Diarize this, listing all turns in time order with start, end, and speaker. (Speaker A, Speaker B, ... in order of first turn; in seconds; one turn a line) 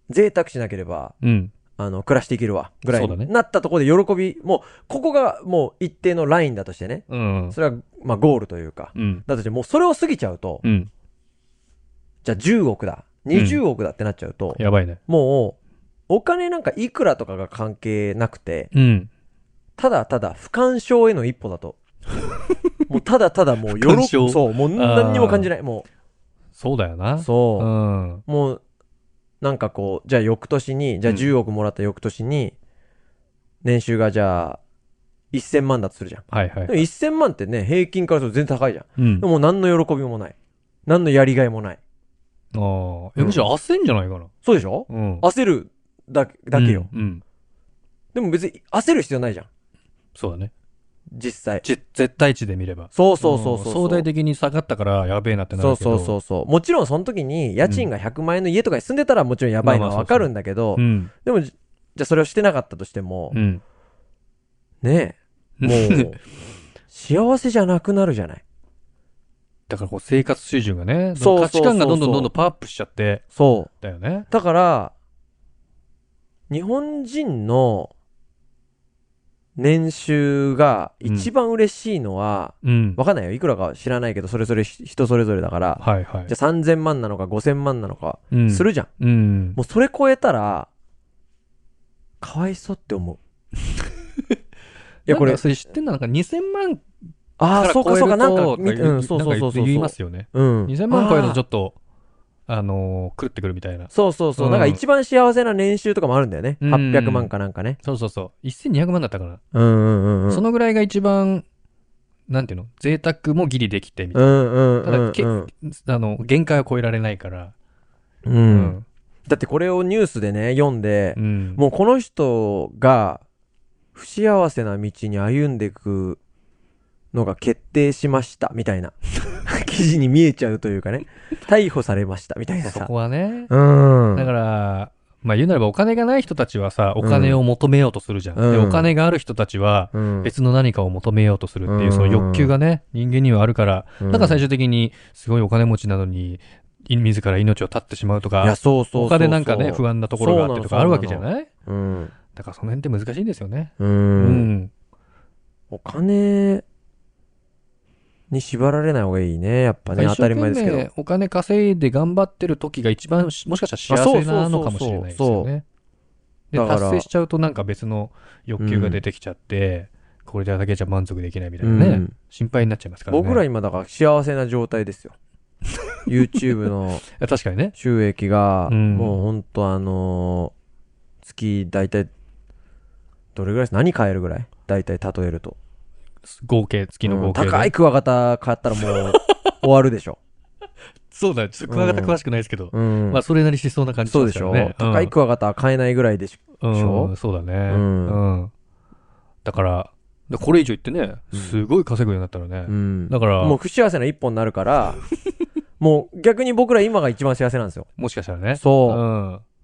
Speaker A: 0.1-1.1
Speaker B: 1.2-1.5
Speaker A: 1.8-10.6
Speaker B: 2.9-3.3
Speaker B: 7.1-7.6
Speaker B: 8.9-9.2
Speaker B: 10.6-10.9
Speaker A: 12.2-15.6
Speaker B: 13.3-13.6
Speaker B: 14.6-15.0
Speaker A: 16.1-18.7
Speaker B: 18.7-19.1
Speaker A: 19.8-21.8
Speaker A: 22.9-25.9
Speaker B: 23.7-25.5
Speaker B: 26.6-28.2
Speaker A: 27.2-27.7
Speaker A: 28.3-28.6
Speaker A: 29.4-32.5
Speaker A: 33.6-34.6
Speaker A: 35.3-40.4
Speaker B: 36.3-36.9
Speaker B: 39.0-39.3
Speaker A: 40.9-41.8
Speaker B: 42.5-44.3
Speaker A: 43.2-43.5
Speaker A: 44.4-46.9
Speaker B: 44.9-45.3
Speaker B: 46.5-47.2
Speaker A: 48.1-49.5
Speaker B: 50.2-50.5
Speaker A: 51.1-51.6
Speaker B: 51.6-56.2
Speaker A: 52.9-54.1
Speaker A: 55.6-63.4
Speaker B: 57.6-57.9
Speaker B: 59.6-61.1
Speaker B: 63.3-63.6
Speaker A: 64.8-66.2
Speaker B: 65.6-66.2
Speaker A: 66.9-68.4
Speaker B: 69.7-73.2
Speaker A: 71.2-72.3
Speaker A: 73.3-73.7
Speaker B: 73.8-74.3
Speaker A: 74.3-74.9
Speaker A: 76.5-77.9
Speaker A: 79.6-88.9
Speaker B: 81.0-81.3
Speaker B: 82.6-83.0
Speaker B: 85.8-86.3
Speaker B: 88.3-89.6
Speaker A: 89.6-90.7
Speaker A: 92.2-93.2
Speaker A: 95.1-95.4
Speaker B: 95.1-96.9
Speaker A: 97.4-101.4
Speaker B: 97.5-101.8
Speaker B: 102.5-104.8
Speaker A: 103.9-107.8
Speaker B: 106.6-109.4
Speaker A: 109.5-110.4
Speaker B: 110.3-111.4
Speaker B: 112.3-117.5
Speaker A: 114.1-115.5
Speaker A: 118.2-123.2
Speaker B: 118.5-118.8
Speaker B: 121.2-121.6
Speaker A: 124.0-126.2
Speaker A: 127.1-132.9
Speaker B: 132.7-133.5
Speaker A: 133.5-134.3
Speaker B: 134.2-151.5
Speaker A: 137.0-137.4
Speaker A: 138.3-138.9
Speaker A: 139.9-140.3
Speaker A: 141.7-142.5
Speaker A: 144.0-144.4
Speaker A: 148.4-152.1
Speaker B: 152.3-154.7
Speaker A: 153.8-154.5
Speaker A: 155.7-156.6
Speaker A: 158.3-160.9
Speaker B: 159.9-165.7
Speaker A: 163.9-165.5
Speaker B: 166.5-173.4
Speaker A: 166.5-167.1
Speaker A: 168.6-169.0
Speaker A: 171.6-172.1
Speaker A: 173.1-175.2
Speaker A: 176.1-177.0
Speaker B: 177.2-177.8
Speaker A: 177.8-180.5
Speaker B: 178.7-179.2
Speaker A: 181.2-182.1
Speaker A: 183.3-185.6
Speaker B: 186.2-187.7
Speaker A: 187.1-190.2
Speaker B: 188.8-189.5
Speaker B: 191.1-195.1
Speaker A: 191.7-192.2
Speaker A: 192.7-193.2
Speaker A: 194.1-197.1
Speaker B: 196.6-198.5
Speaker A: 197.7-198.2
Speaker B: 199.4-203.6
Speaker A: 201.3-201.6
Speaker A: 202.7-205.0
Speaker A: 205.8-207.9
Speaker B: 208.0-209.4
Speaker A: 208.6-209.0